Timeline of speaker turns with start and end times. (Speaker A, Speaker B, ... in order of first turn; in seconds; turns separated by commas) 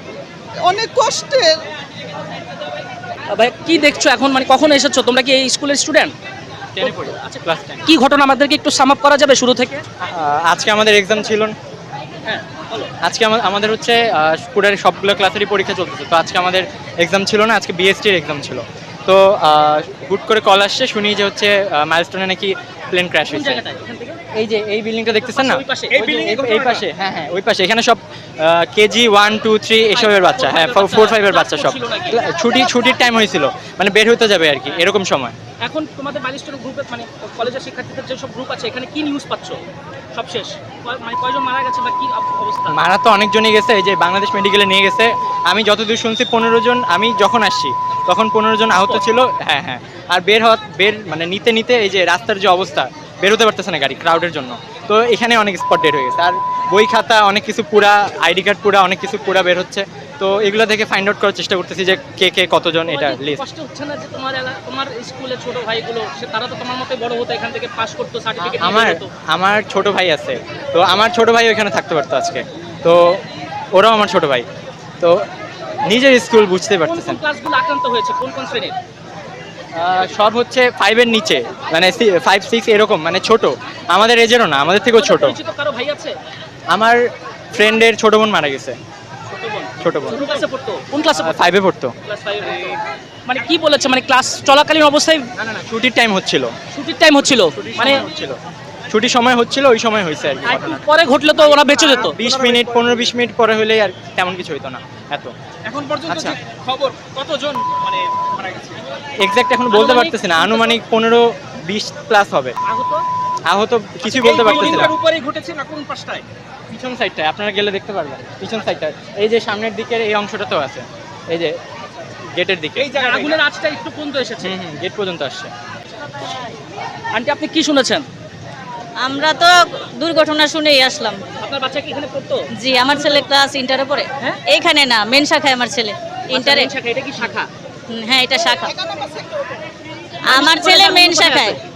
Speaker A: 0.6-1.6, Speaker B: 3.3-6.1, Speaker C: 6.7-7.8, Speaker B: 6.8-9.8, Speaker C: 10.0-11.6, Speaker B: 12.2-12.9, Speaker C: 13.0-23.6, Speaker B: 23.3-24.2, Speaker C: 24.3-35.4, Speaker B: 25.2-26.0, Speaker D: 26.0-26.8, Speaker B: 29.9-32.5, Speaker B: 35.6-39.6, Speaker B: 40.1-42.9, Speaker C: 42.7-63.4, Speaker B: 48.7-49.0, Speaker B: 62.9-69.1, Speaker C: 68.4-74.5, Speaker C: 75.0-75.2, Speaker C: 75.9-77.2, Speaker B: 76.8-78.8, Speaker C: 79.8-85.4, Speaker B: 85.0-86.2, Speaker C: 86.7-87.0, Speaker C: 87.5-88.8, Speaker B: 89.3-91.5, Speaker C: 89.8-90.3, Speaker C: 91.2-91.9, Speaker B: 92.0-95.4, Speaker C: 95.5-96.5, Speaker B: 96.7-98.1, Speaker C: 97.5-100.8, Speaker B: 100.4-102.2, Speaker C: 101.9-105.3, Speaker D: 105.7-108.8, Speaker C: 106.0-106.4, Speaker C: 109.2-112.5, Speaker B: 109.7-110.7, Speaker B: 112.7-113.0, Speaker C: 113.5-115.0, Speaker D: 114.1-116.2, Speaker B: 114.4-115.0, Speaker C: 116.7-121.6, Speaker C: 122.3-123.0, Speaker D: 122.9-123.3, Speaker B: 122.9-124.5, Speaker C: 124.4-125.5, Speaker B: 127.1-128.1, Speaker E: 129.0-131.2, Speaker B: 131.4-132.5, Speaker E: 132.5-136.7, Speaker B: 136.3-137.5, Speaker E: 137.9-138.7, Speaker A: 138.6-139.6, Speaker E: 140.3-141.6, Speaker B: 140.3-141.6